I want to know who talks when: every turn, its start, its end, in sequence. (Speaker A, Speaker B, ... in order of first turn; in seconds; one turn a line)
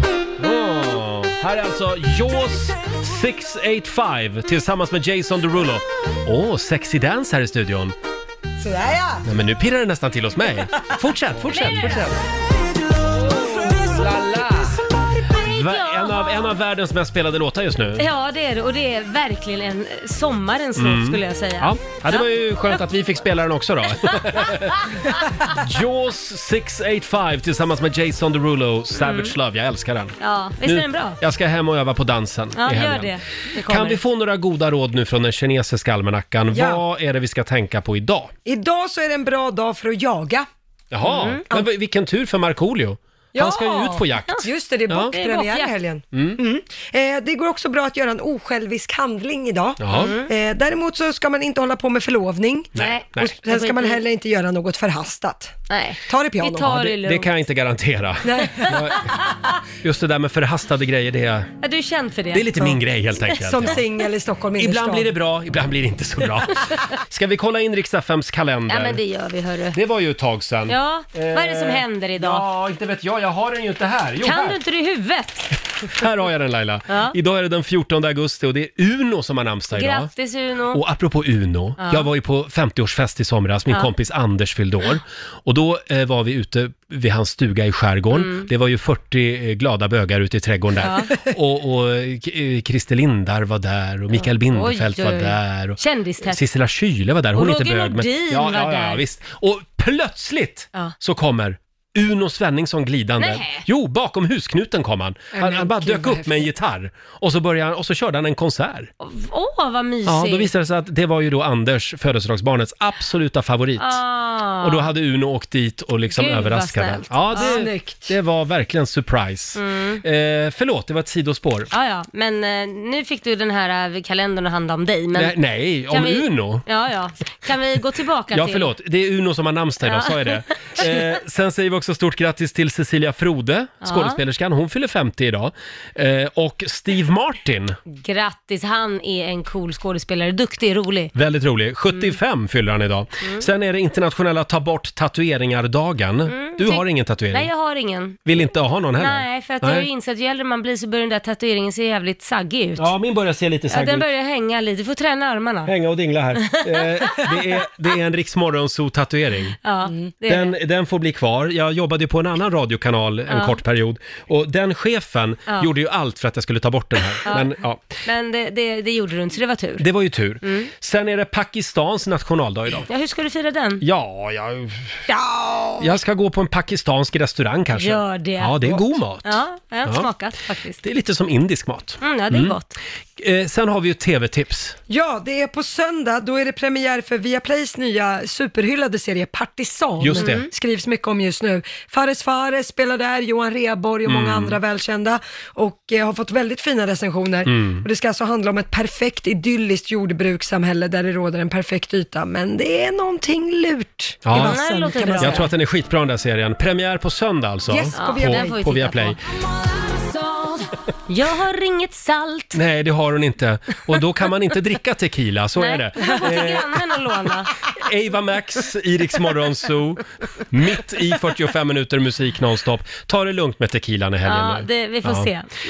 Speaker A: 0.4-7.9
Speaker B: 8.6-9.2
Speaker A: 9.2-12.1
Speaker C: 11.5-12.2
Speaker B: 13.3-14.7
Speaker A: 14.2-14.6
Speaker C: 15.3-16.5
Speaker A: 15.4-18.1
Speaker C: 17.9-22.8
Speaker A: 20.8-38.3
Speaker C: 24.1-24.6
Speaker C: 28.9-29.3
Speaker C: 30.2-31.2
Speaker C: 32.5-34.0
Speaker B: 36.5-36.8
Speaker B: 38.5-40.5
Speaker A: 40.9-45.1
Speaker C: 41.0-41.6
Speaker B: 43.3-56.7
Speaker C: 45.1-45.7
Speaker A: 46.1-46.4
Speaker A: 49.8-50.1
Speaker C: 49.9-50.3
Speaker A: 52.7-53.3
Speaker C: 52.8-54.0
Speaker C: 55.7-57.3
Speaker A: 56.6-59.1
Speaker B: 58.2-58.8
Speaker C: 58.6-59.6
Speaker A: 59.8-61.5
Speaker C: 61.6-62.8
Speaker A: 62.3-63.8
Speaker B: 63.4-65.1
Speaker A: 64.6-69.0
Speaker C: 68.7-69.8
Speaker A: 69.7-74.6
Speaker C: 70.7-72.4
Speaker C: 74.2-75.6
Speaker A: 76.0-80.1
Speaker C: 76.9-77.2
Speaker C: 79.7-80.8
Speaker A: 80.7-108.9
Speaker C: 81.8-82.1
Speaker C: 88.1-88.5
Speaker C: 90.8-91.2
Speaker C: 94.1-96.4
Speaker C: 97.3-99.0
Speaker C: 103.2-103.7
Speaker B: 105.3-106.5
Speaker C: 109.0-110.5
Speaker A: 110.0-114.0
Speaker C: 113.8-114.9
Speaker A: 114.6-121.7
Speaker C: 116.1-117.7
Speaker B: 117.3-118.1
Speaker C: 119.5-120.0
Speaker C: 121.7-125.3
Speaker A: 125.1-126.7
Speaker C: 125.9-128.7
Speaker A: 128.3-137.8
Speaker C: 129.8-130.9
Speaker C: 133.8-134.2
Speaker C: 137.9-141.1
Speaker A: 141.1-147.5
Speaker C: 141.9-142.2
Speaker C: 143.2-143.5
Speaker C: 146.3-148.4
Speaker A: 148.2-149.9
Speaker C: 149.0-152.9
Speaker A: 152.8-154.1
Speaker C: 153.7-155.7
Speaker A: 155.7-159.6
Speaker C: 156.3-157.5
Speaker C: 159.6-160.5
Speaker A: 160.3-167.8
Speaker C: 163.3-163.6
Speaker C: 167.2-167.5
Speaker C: 168.1-169.8
Speaker A: 169.8-172.9
Speaker C: 170.4-170.7
Speaker C: 172.9-173.8
Speaker A: 173.8-175.0
Speaker B: 175.1-175.7
Speaker A: 175.8-180.1
Speaker C: 177.8-180.8
Speaker A: 180.8-182.6
Speaker C: 182.0-182.7
Speaker A: 183.2-184.8
Speaker B: 184.9-205.5
Speaker A: 190.0-190.5
Speaker C: 190.2-190.4
Speaker A: 194.1-194.6
Speaker A: 197.4-197.8
Speaker A: 204.2-204.6
Speaker C: 204.3-205.5
Speaker A: 205.2-209.2
Speaker B: 207.7-208.6
Speaker C: 207.9-209.2
Speaker C: 211.1-212.6
Speaker A: 212.5-216.8
Speaker C: 215.6-217.5
Speaker A: 217.7-225.3
Speaker C: 224.2-225.5